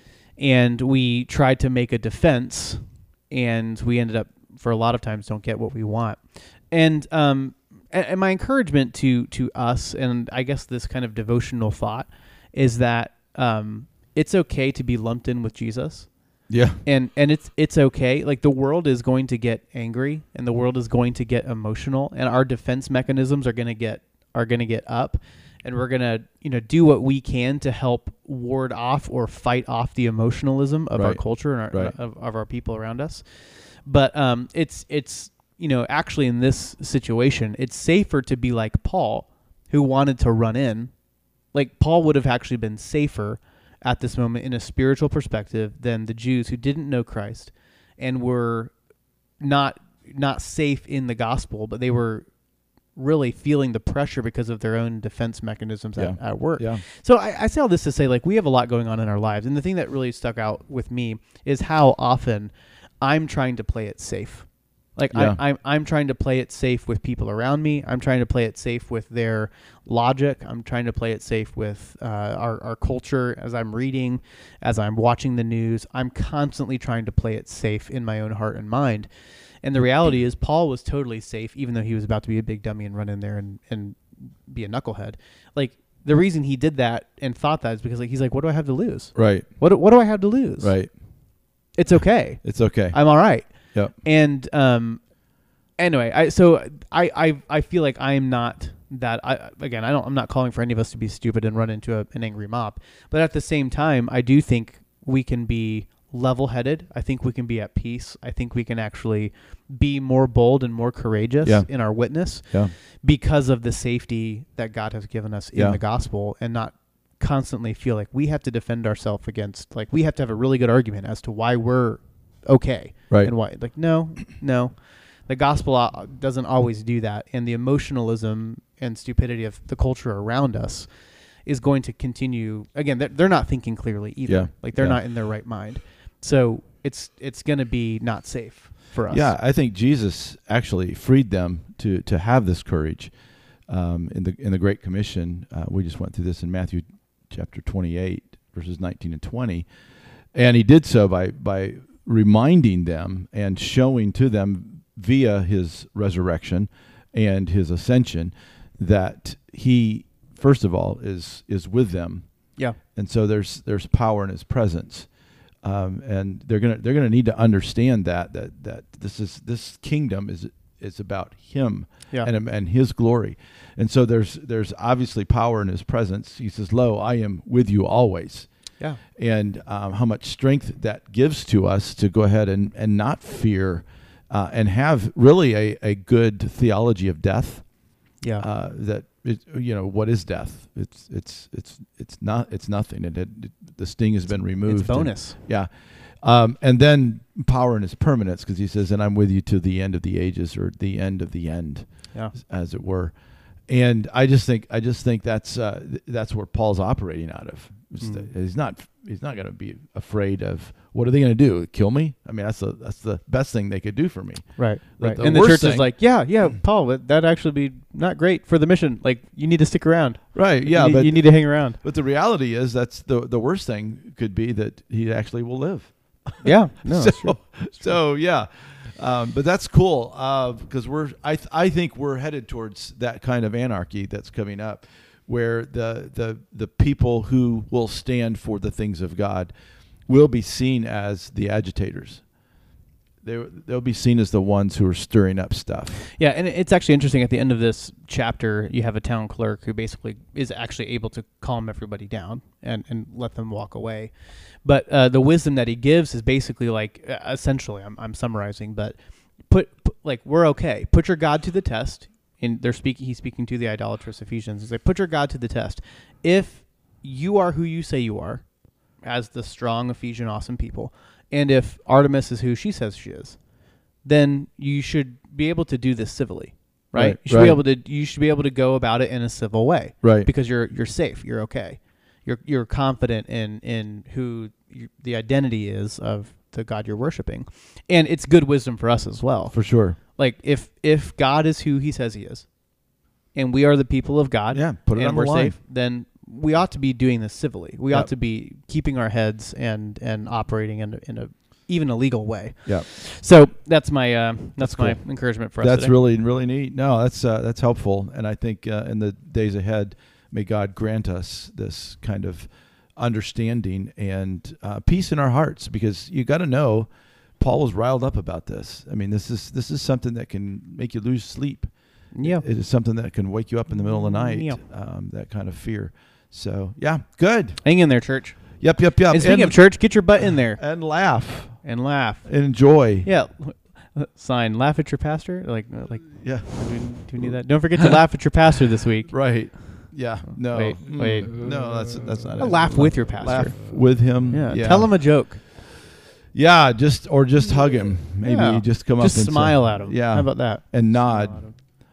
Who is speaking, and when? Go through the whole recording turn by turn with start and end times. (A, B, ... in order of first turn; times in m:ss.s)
0:00.4-0:16.1 A
0:16.5-0:16.8 B
0:16.8-0:40.9 A
0:31.0-0:32.0 B
0:41.5-0:48.7 A
0:49.4-0:52.3 A
0:53.0-1:19.1 A
0:56.0-0:56.8 B
1:05.1-1:05.4 B
1:19.6-1:30.8 A
1:29.2-1:29.5 B
1:30.6-1:30.9 B
1:31.8-1:35.0 A
1:32.4-1:33.9 B
1:35.8-2:10.9 A
1:51.4-1:51.7 B
1:52.5-1:52.7 B
1:55.6-1:55.8 B
2:11.5-2:19.4 A
2:14.3-2:15.0 B
2:19.1-2:23.2 B
2:23.7-2:29.7 B
2:30.3-2:42.2 B
2:42.9-2:45.1 B
2:45.6-2:58.5 B
2:59.1-3:07.7 B
3:08.2-3:08.5 A
3:08.4-3:36.0 B
3:14.6-3:15.4 A
3:28.0-3:28.3 A
3:34.6-3:41.8 A
3:40.3-3:59.5 B
3:46.4-3:48.0 A
4:00.1-4:02.2 B
4:03.2-4:06.0 B
4:06.2-4:28.5 A
4:29.0-4:33.4 A
4:34.0-4:52.5 A
4:36.9-4:37.6 B
4:40.0-4:40.3 B
4:49.5-4:50.0 B
4:53.3-5:06.0 A
4:54.5-4:55.6 B
5:04.6-5:27.7 B
5:22.1-5:22.4 A
5:24.0-5:24.6 A
5:27.6-5:30.6 A
5:28.6-5:33.1 B
5:31.6-5:32.5 A
5:33.0-5:41.4 A
5:36.1-5:37.4 B
5:39.1-5:45.0 B
5:42.4-5:45.4 A
5:46.3-5:51.7 B
5:48.2-5:51.6 A